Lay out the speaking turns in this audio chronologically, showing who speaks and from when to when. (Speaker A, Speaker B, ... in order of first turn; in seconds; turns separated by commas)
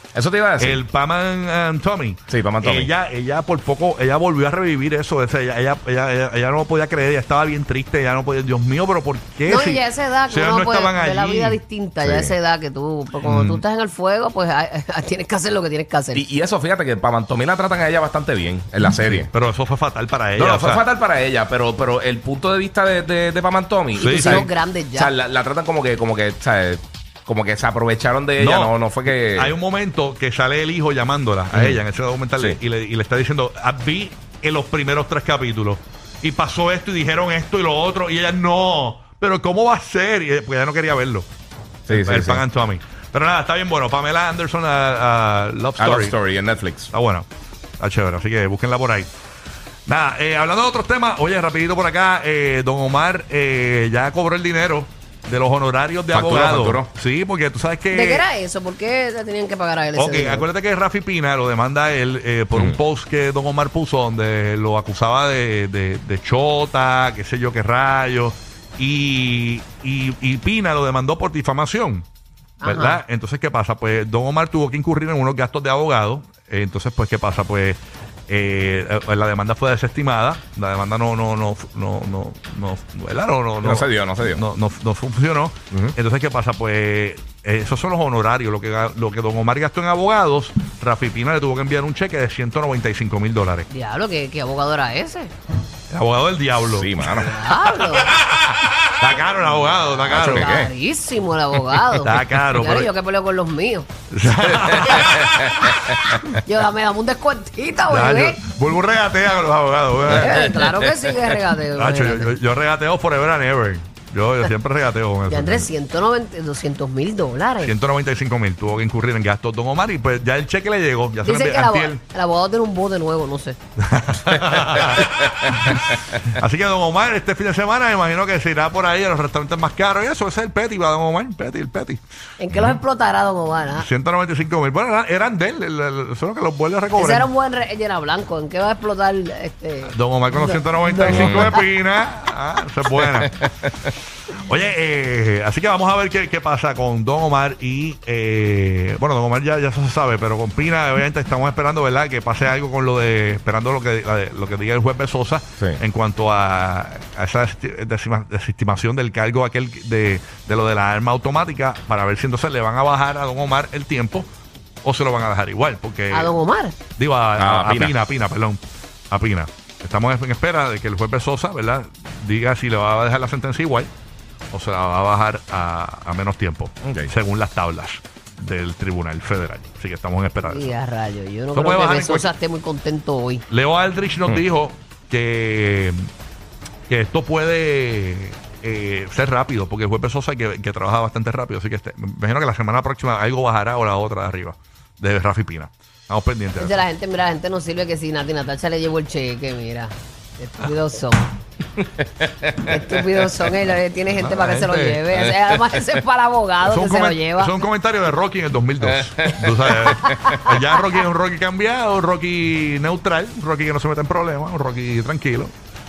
Speaker A: 0.1-0.8, Speaker B: 0.6-11.6, Speaker A: 2.3-2.9, Speaker C: 9.5-16.2, Speaker A: 12.0-12.3, Speaker B: 13.2-13.6, Speaker A: 16.1-19.3, Speaker B: 19.0-20.8, Speaker A: 20.4-29.5, Speaker C: 24.0-25.1, Speaker B: 24.0-24.5, Speaker B: 28.4-28.7, Speaker B: 29.3-41.3, Speaker A: 31.5-31.8, Speaker A: 41.9-42.4, Speaker B: 41.9-46.1, Speaker A: 45.8-46.9, Speaker B: 46.9-47.3, Speaker B: 47.8-49.1, Speaker B: 49.9-58.2, Speaker A: 56.1-56.9, Speaker C: 57.9-60.5, Speaker B: 60.0-72.0, Speaker C: 72.6-73.0, Speaker B: 72.6-93.7, Speaker A: 83.6-84.4, Speaker C: 93.7-95.3, Speaker B: 95.9-97.0, Speaker A: 96.8-97.3, Speaker C: 97.1-98.1, Speaker B: 98.1-100.5, Speaker A: 100.1-100.7, Speaker C: 100.1-103.9, Speaker B: 102.0-102.9, Speaker B: 104.1-106.0, Speaker A: 104.4-105.5, Speaker C: 106.4-108.4, Speaker B: 107.8-110.5, Speaker C: 110.1-112.3, Speaker A: 110.1-110.7, Speaker B: 111.8-115.7, Speaker C: 115.3-117.7, Speaker B: 117.6-122.0, Speaker C: 121.2-123.6, Speaker B: 123.8-132.0, Speaker A: 125.4-125.8, Speaker C: 132.4-133.9, Speaker B: 132.5-132.8, Speaker B: 133.8-137.3, Speaker C: 136.9-141.6, Speaker B: 139.8-143.5, Speaker A: 141.0-141.5, Speaker A: 143.0-143.7, Speaker B: 144.5-164.2, Speaker B: 164.8-166.3, Speaker C: 166.1-166.8, Speaker B: 167.0-168.6, Speaker A: 167.4-167.9, Speaker B: 169.1-173.9, Speaker B: 174.5-180.7, Speaker A: 176.8-177.1, Speaker C: 180.4-183.4, Speaker B: 181.5-182.3, Speaker B: 183.5-186.1, Speaker B: 186.9-196.8, Speaker C: 196.6-201.3, Speaker A: 201.8-202.7, Speaker C: 202.6-207.6, Speaker B: 204.1-205.0, Speaker B: 206.6-215.5, Speaker A: 208.9-210.3, Speaker C: 210.0-210.9